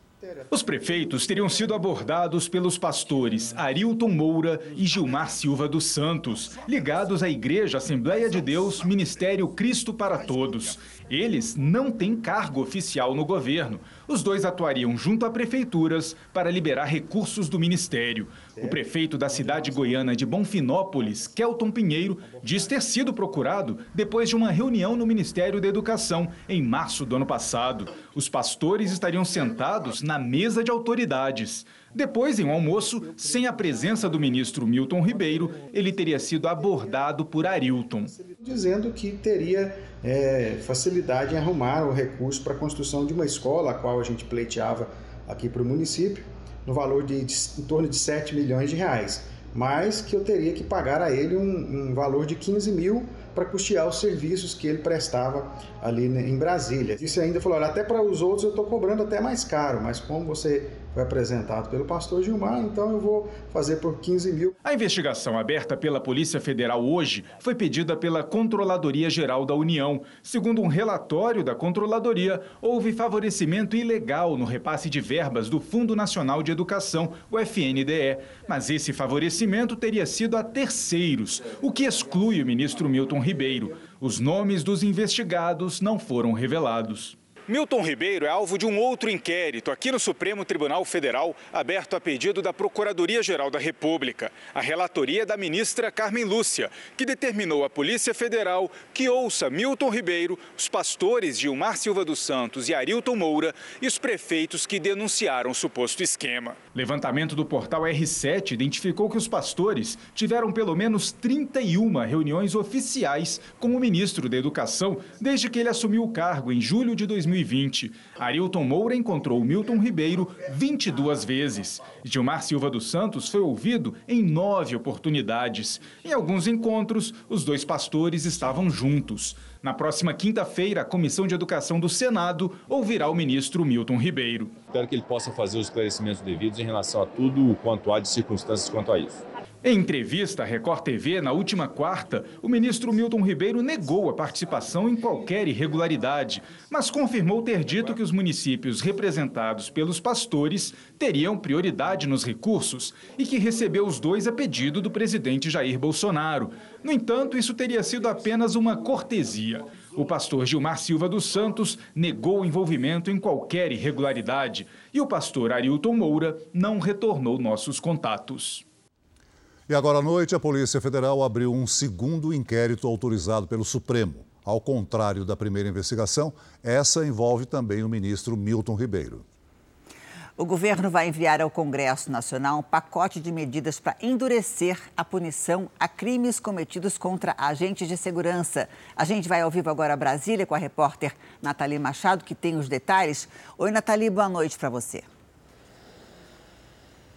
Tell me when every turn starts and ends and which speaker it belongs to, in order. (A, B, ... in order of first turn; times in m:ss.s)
0:00.5-0:38.1 A
0:01.4-0:01.7 B
0:18.7-0:20.2 B
0:21.1-0:23.2 B
0:32.9-0:36.2 B
0:38.3-1:04.5 C
1:04.6-2:14.5 A
1:21.8-1:22.6 B
2:14.6-2:19.2 B
2:19.6-2:48.6 A
2:27.5-2:28.0 B
2:49.7-2:59.2 D
3:00.4-3:15.1 E